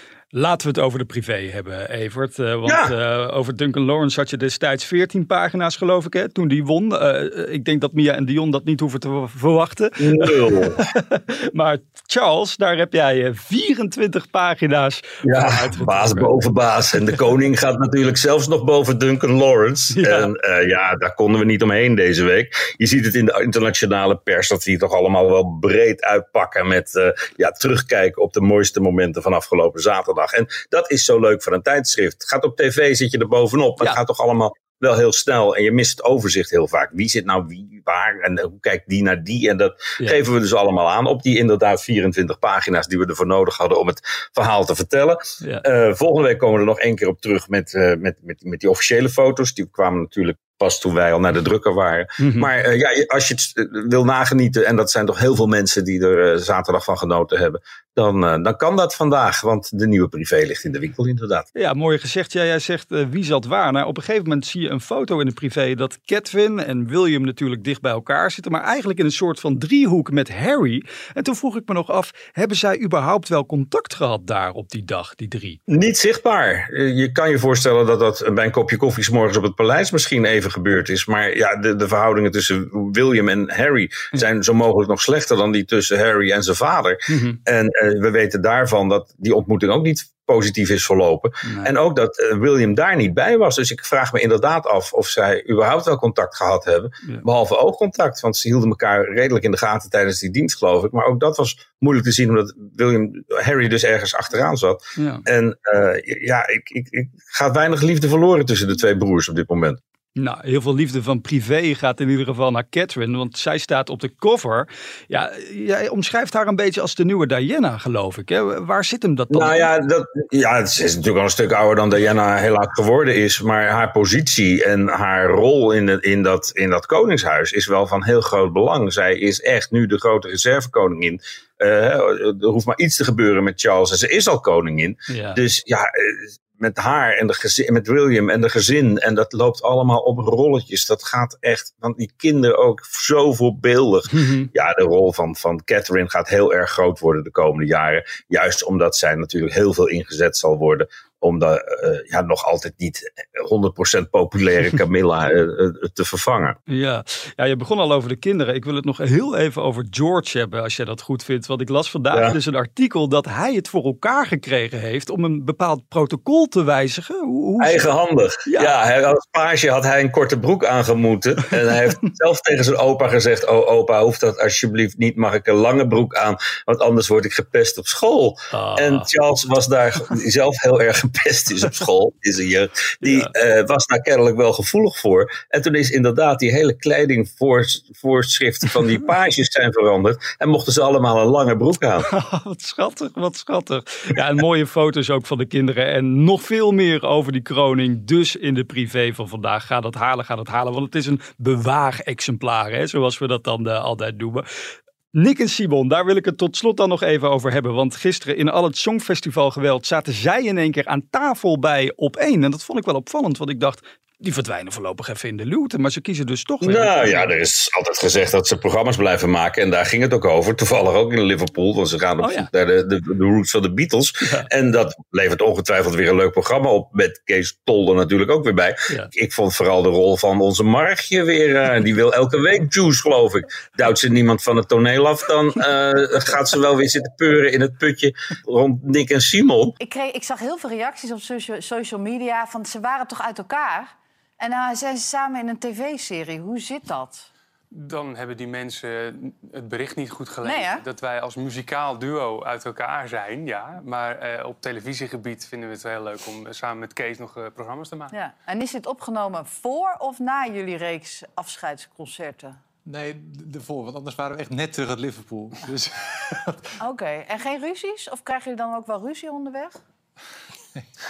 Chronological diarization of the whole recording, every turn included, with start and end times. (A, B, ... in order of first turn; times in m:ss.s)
0:00.3-0:17.2 A
0:02.7-0:03.0 B
0:10.0-0:10.8 B
0:15.2-1:01.5 B
0:19.9-0:20.3 A
0:52.2-0:52.5 A
1:01.6-1:15.6 A
1:15.7-1:49.8 B
1:27.1-1:27.4 A
1:31.4-1:31.7 A
1:45.0-1:45.2 A
1:50.2-1:59.7 A
1:59.3-2:36.6 B
2:15.1-2:15.4 A
2:24.1-2:24.5 A
2:36.7-2:47.9 A
2:42.1-2:42.4 B
2:47.6-3:12.1 B
2:48.5-2:48.8 A
2:58.5-2:59.1 A
3:03.0-3:03.3 A
3:12.0-3:24.5 A
3:25.1-3:37.3 A
3:36.6-3:59.8 B
3:42.2-3:42.5 A
3:44.2-3:44.5 A
3:59.8-4:07.3 C
4:07.8-4:18.1 D
4:10.4-4:10.8 C
4:18.1-4:22.6 C
4:22.9-4:25.8 E
4:26.8-4:29.8 C